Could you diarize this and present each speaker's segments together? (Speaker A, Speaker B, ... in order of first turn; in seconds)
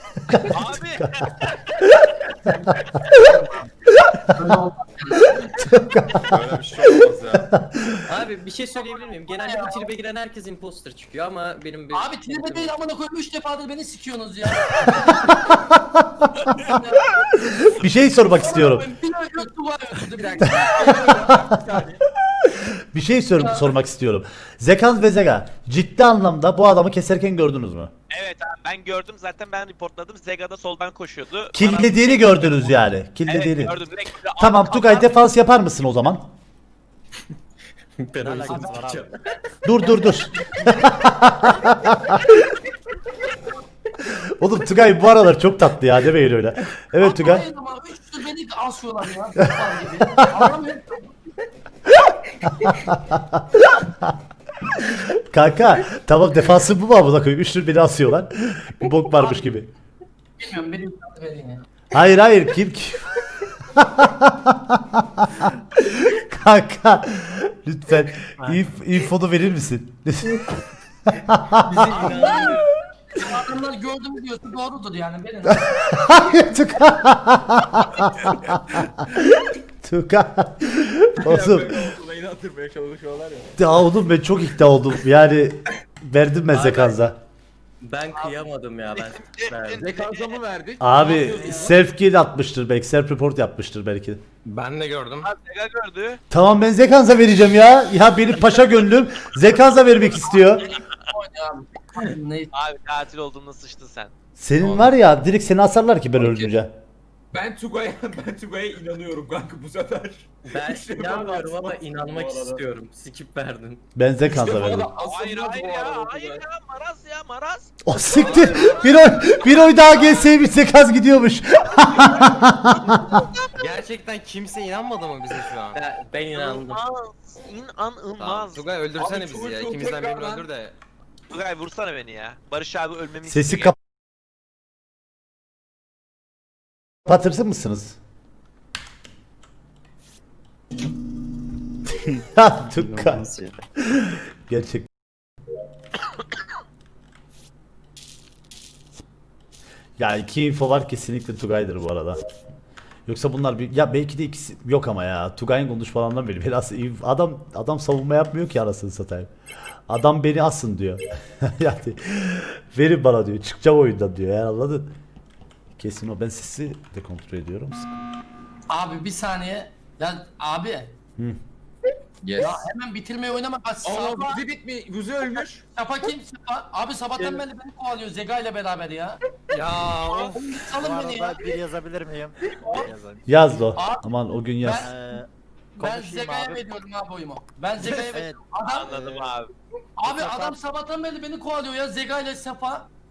Speaker A: 0.2-1.5, 2.8-3.2, 5.4-6.9, 7.5-8.0, 17.8-18.9, 20.9-21.5, 22.4-27.9, 31.5-33.8, 34.4-36.3, 39.6-42.3, 44.0-47.5, 52.7-54.1, 54.8-59.7, 61.9-70.5, 71.2-72.2, 75.7-81.9, 83.6-87.2, 90.8-94.2, 96.3-100.7, 104.4-106.7, 114.0-114.9, 117.8-123.2, 133.3-133.8, 137.1-138.0, 142.2-144.9, 150.0-152.2, 153.1-159.3, 159.9-164.9, 165.8-167.9, 183.3-184.9
Speaker B: 0.5-1.4, 28.1-35.1, 89.0-90.4, 95.2-96.2, 102.5-104.1, 115.0-117.8, 119.2-120.3, 126.3-128.7, 131.3-133.7, 179.9-180.3, 188.7-189.5
Speaker C: 2.5-3.6, 4.3-5.5, 8.8-9.9, 11.9-15.6, 16.4-21.3, 23.4-23.7, 38.4-38.8, 47.0-51.1, 60.4-61.7, 72.0-72.6, 73.2-76.6, 100.4-102.5, 168.7-170.9, 172.4-174.4, 175.7-179.2, 180.2-181.5, 182.6-182.9, 183.8-184.1, 184.6-184.9, 185.8-188.9, 190.0-192.9
Speaker D: 6.2-7.5, 20.1-22.0, 81.2-83.5, 89.7-91.8, 107.3-112.6, 114.3-116.4, 128.9-130.5, 173.8-175.6
Speaker E: 8.1-12.8, 38.0-39.1, 71.6-72.7, 86.5-87.1, 87.8-89.9, 104.6-104.9, 106.2-106.5, 110.5-113.8, 125.7-126.8
Speaker F: 38.2-39.1, 143.0-143.5, 180.8-183.2, 184.8-186.6, 187.9-189.4, 190.1-190.6
Speaker G: 94.5-95.3, 118.1-118.9, 123.6-125.8, 128.2-130.8, 179.5-180.4